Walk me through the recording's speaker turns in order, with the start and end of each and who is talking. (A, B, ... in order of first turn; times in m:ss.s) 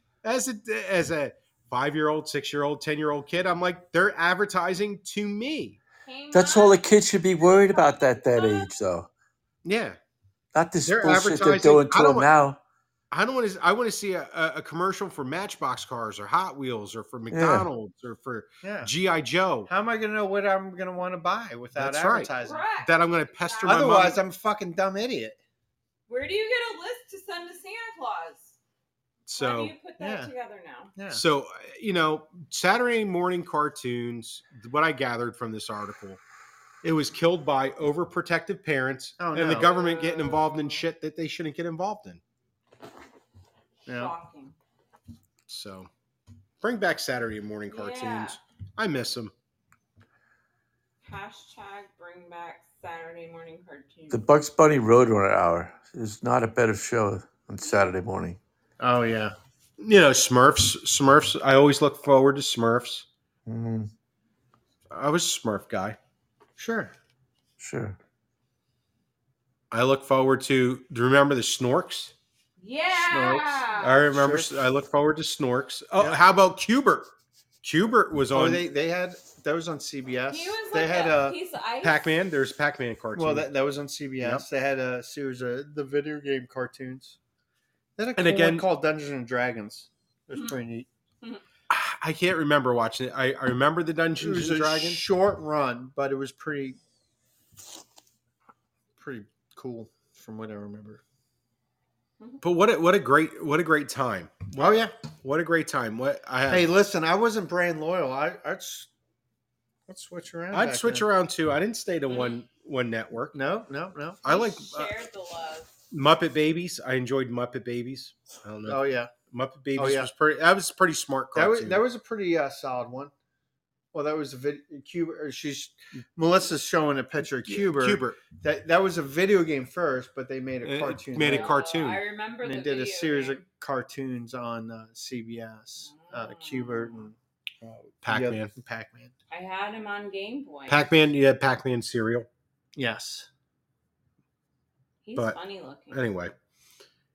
0:00.2-0:05.8 A
0:06.0-0:06.8 B
0:06.3-0:09.1 C
0:07.4-0:08.7 B
0:09.6-0:10.0 A
0:10.5-0:12.6 C
0:10.8-0:12.3 A
0:13.1-0:19.7 A
0:17.3-0:17.7 C
0:18.6-0:18.9 D
0:19.7-0:22.6 D
0:21.8-0:22.3 A
0:22.4-0:23.9 B
0:22.8-0:24.2 A
0:23.6-0:25.4 D
0:26.1-0:28.6 B
0:29.3-0:29.7 A
0:29.4-0:30.9 B
0:30.0-0:30.3 D
0:31.0-0:31.2 D
0:31.1-0:36.2 A
0:36.8-0:42.2 A
0:39.2-0:39.9 D
0:39.6-0:40.9 B
0:43.9-0:44.1 D
0:43.9-0:44.6 B
0:45.5-0:45.9 A
0:46.6-0:49.3 A
0:47.7-0:48.4 B
0:51.0-0:54.2 B
0:54.1-0:58.4 C
0:57.6-0:57.9 B
0:58.8-0:59.3 D
0:59.8-1:03.1 A
1:03.5-1:03.9 C
1:04.9-1:06.0 A
1:06.6-1:06.9 D
1:07.6-1:08.0 C
1:09.7-1:12.1 A
1:12.6-1:14.0 B
1:12.9-1:14.5 D
1:13.8-1:17.1 A
1:17.6-1:18.6 A
1:18.3-1:21.4 D
1:20.3-1:22.1 B
1:21.8-1:23.5 A
1:23.2-1:27.2 D
1:28.0-1:30.9 D
1:28.2-1:28.6 A
1:31.7-1:35.0 A
1:34.2-1:36.8 D
1:39.0-1:41.0 D
1:42.4-1:46.7 A
1:44.6-1:44.9 D
1:46.5-1:48.9 D
1:49.9-1:51.1 D
1:50.5-1:53.4 A
1:52.1-1:52.4 B
1:53.3-1:54.6 D
1:54.2-1:55.8 B
1:54.3-1:54.9 A
1:55.9-2:01.8 A
1:58.7-1:59.1 D
1:59.8-2:00.1 D
2:01.3-2:03.1 D
2:03.9-2:11.6 D
2:07.4-2:08.2 A
2:10.6-2:12.0 A
2:11.2-2:13.4 B
2:12.4-2:17.2 D
2:15.8-2:17.1 B
2:17.6-2:18.5 A
2:18.1-2:19.1 D
2:19.3-2:20.9 B
2:20.7-2:22.3 A
2:22.8-2:23.3 D
2:25.0-2:26.0 B
2:25.9-2:26.3 A